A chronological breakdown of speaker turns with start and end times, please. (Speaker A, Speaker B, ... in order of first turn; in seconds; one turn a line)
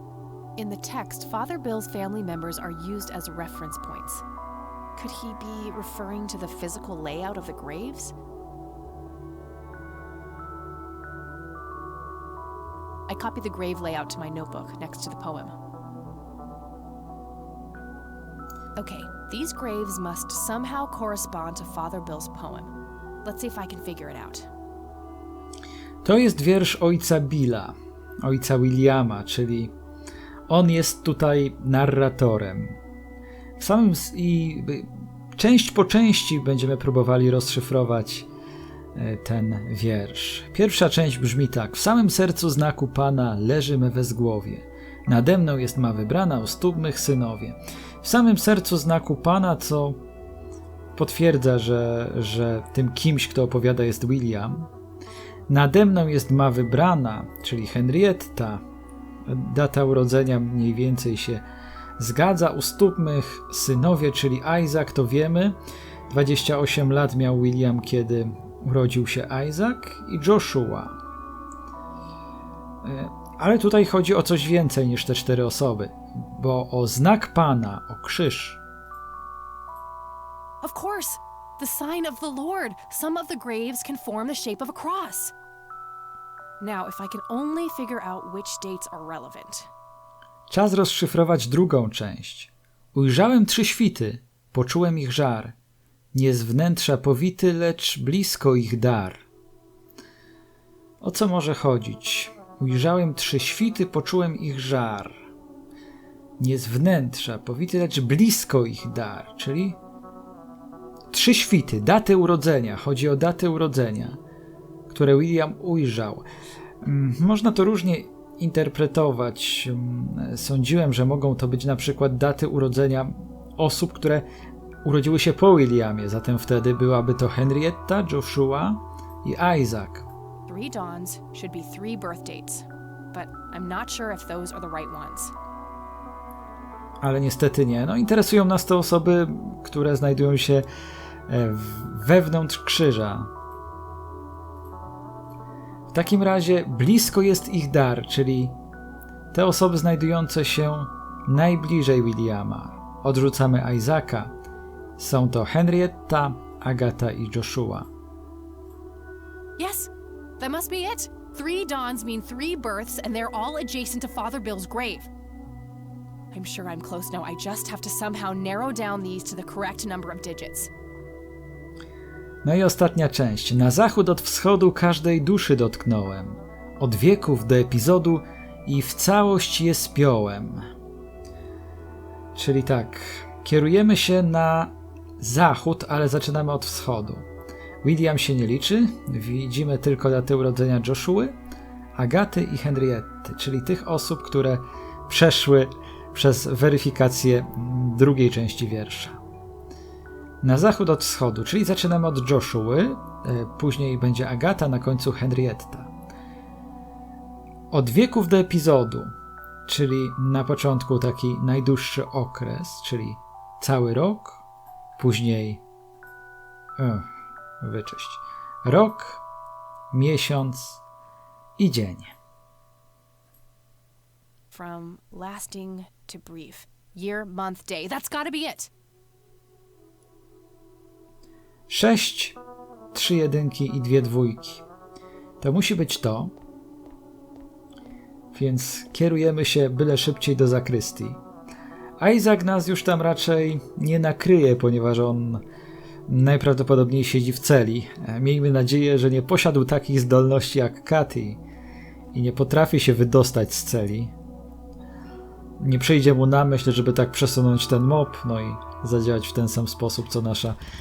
Speaker A: 0.6-4.2
Speaker A: 5.0-8.2
Speaker A: 13.1-15.5
Speaker A: 18.8-22.7
Speaker A: 23.2-24.5
Speaker B: 26.0-29.7
Speaker B: 30.5-32.8
Speaker B: 33.6-38.3
Speaker B: 39.0-50.0
Speaker B: 51.0-54.7
Speaker B: 55.5-58.6
Speaker B: 59.3-61.5
Speaker B: 62.0-65.6
Speaker B: 66.1-71.0
Speaker B: 72.8-78.6
Speaker A: 80.6-85.3
Speaker A: 86.6-89.7
Speaker B: 90.5-95.5
Speaker B: 96.1-99.2
Speaker B: 101.0-105.2
Speaker B: 106.4-109.8
Speaker B: 111.1-114.2
Speaker B: 114.9-116.2
Speaker B: 116.8-124.3
Speaker B: 124.8-130.1
Speaker A: 130.5-135.3
Speaker B: 137.0-140.7
Speaker B: 141.3-143.3
Speaker B: 145.9-148.6
Speaker B: 149.3-154.3
Speaker B: 155.0-157.9
Speaker A: 159.6-165.1
Speaker A: 166.3-170.7
Speaker B: 172.4-180.7
Speaker B: 182.3-187.3
Speaker B: 187.8-191.4
Speaker B: 191.9-199.2
Speaker B: 200.4-205.9
Speaker B: 207.7-209.2
Speaker B: 209.7-214.4
Speaker B: 215.0-215.6
Speaker B: 216.8-217.1
Speaker B: 217.6-219.2
Speaker B: 219.9-220.8
Speaker B: 221.6-222.1
Speaker A: 224.5-228.7
Speaker B: 231.7-232.4
Speaker B: 232.9-234.6
Speaker B: 235.4-236.3
Speaker B: 238.3-241.2
Speaker B: 242.0-245.4
Speaker B: 246.1-251.4
Speaker B: 252.1-254.1
Speaker B: 255.6-260.6